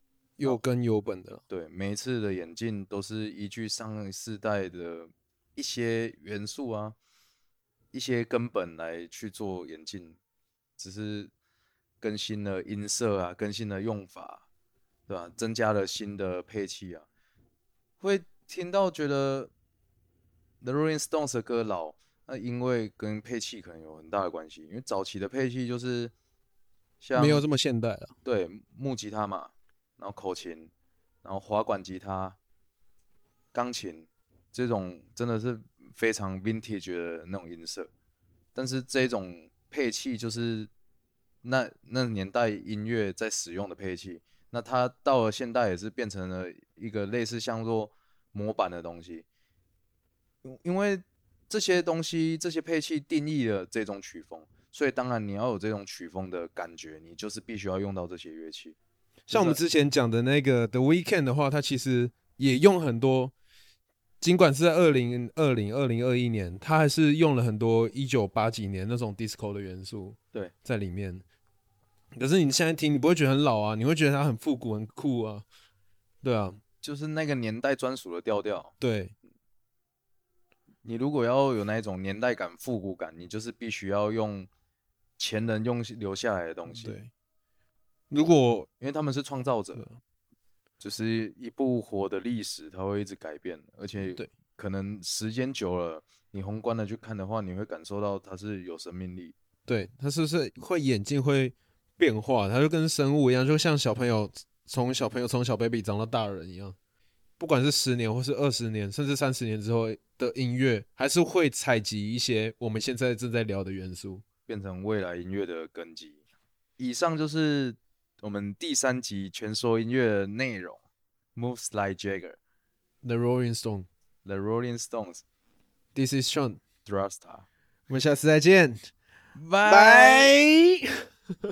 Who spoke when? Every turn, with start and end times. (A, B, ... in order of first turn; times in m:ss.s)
0:00.4-0:01.4 A
0:01.5-0:07.0 B
0:07.9-0:10.2 B
0:10.8-0:11.3 B
0:12.0-0:14.4 B
0:15.1-0:17.0 B
0:18.0-0:19.5 B
0:20.6-0:26.1 B
0:27.0-0:27.4 B
0:27.1-0:28.1 A
0:28.2-0:30.7 B
0:31.2-0:32.4 B
0:33.5-0:37.9 B
0:38.5-0:40.7 B
0:41.4-0:49.2 B
0:50.4-0:58.8 B
0:59.3-1:03.3 A
0:59.3-0:59.6 B
1:04.2-1:11.2 A
1:12.1-1:15.4 A
1:16.2-1:16.6 A
1:16.8-1:18.7 B
1:18.8-1:19.1 A
1:20.8-1:24.5 B
1:25.2-1:27.0 B
1:26.7-1:27.1 A
1:28.1-1:28.7 A
1:28.8-1:29.9 B
1:30.8-1:39.3 B
1:39.7-1:46.8 A
1:47.4-1:54.2 A
1:54.5-1:56.2 B
1:56.8-2:00.8 B
2:01.3-2:02.4 B
2:03.0-2:03.9 A
2:04.2-2:05.2 B
2:05.9-2:06.6 A
2:06.8-2:07.4 B
2:07.9-2:08.9 A
2:09.3-2:10.3 B
2:09.6-2:10.8 A